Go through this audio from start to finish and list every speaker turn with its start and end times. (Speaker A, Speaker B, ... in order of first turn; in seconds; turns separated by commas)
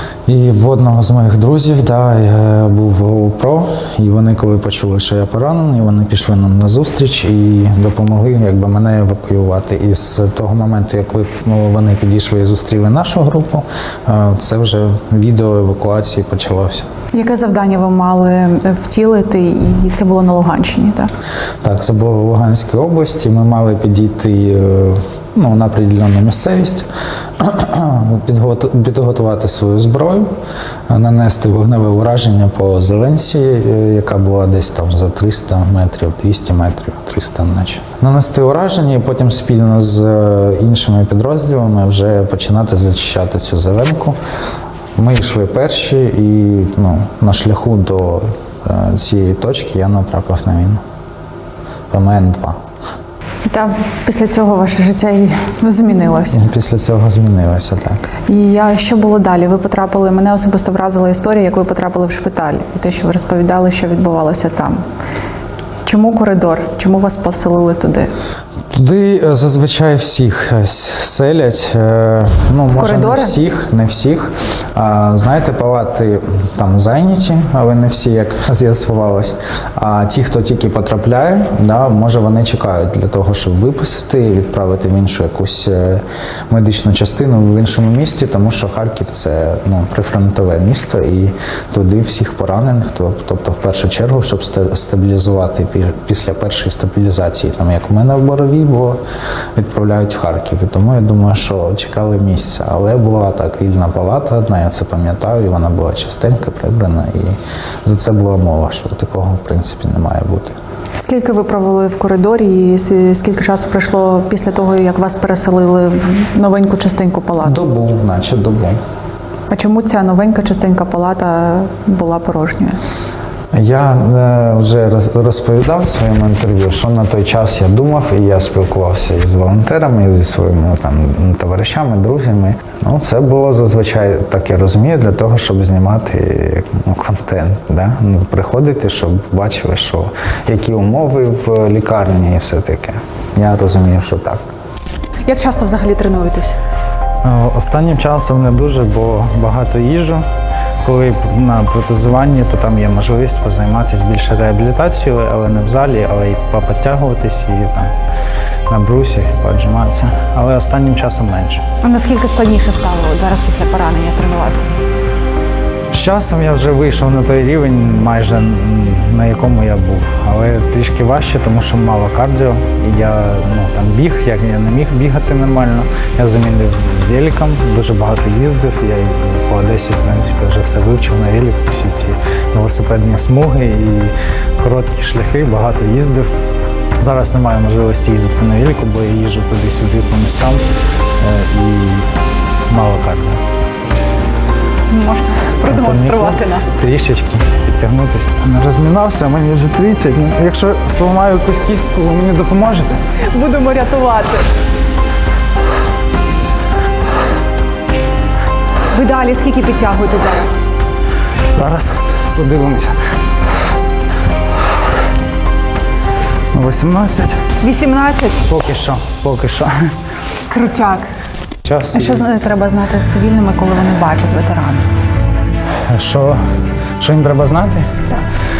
Speaker A: 0.2-16.9, Speaker B: 17.1-21.1, Speaker A: 21.6-26.9, Speaker A: 27.4-30.3, Speaker A: 30.9-44.1, Speaker A: 45.0-50.8, Speaker A: 51.9-52.5, Speaker B: 53.5-56.5, Speaker A: 56.3-58.1, Speaker B: 58.3-64.8, Speaker B: 65.8-68.1, Speaker A: 68.7-99.0, Speaker B: 72.7-73.4, Speaker A: 99.5-110.5, Speaker B: 111.0-117.6, Speaker A: 117.4-118.8, Speaker B: 119.5-122.8, Speaker A: 123.5-144.4, Speaker B: 145.3-146.6, Speaker A: 147.2-150.2, Speaker A: 150.8-157.9, Speaker A: 158.7-161.6, Speaker B: 161.8-164.8, Speaker A: 165.9-186.3, Speaker A: 187.0-190.6, Speaker A: 191.2-192.1, Speaker A: 192.7-193.4, Speaker B: 194.9-196.7, Speaker A: 195.6-203.0, Speaker B: 203.2-204.5, Speaker B: 208.9-210.5, Speaker A: 211.5-212.9, Speaker A: 216.5-217.4, Speaker B: 217.6-218.5, Speaker A: 218.5-219.9, Speaker B: 220.5-221.1, Speaker A: 221.6-222.3, Speaker B: 221.9-224.9, Speaker A: 225.9-226.4, Speaker A: 227.0-227.9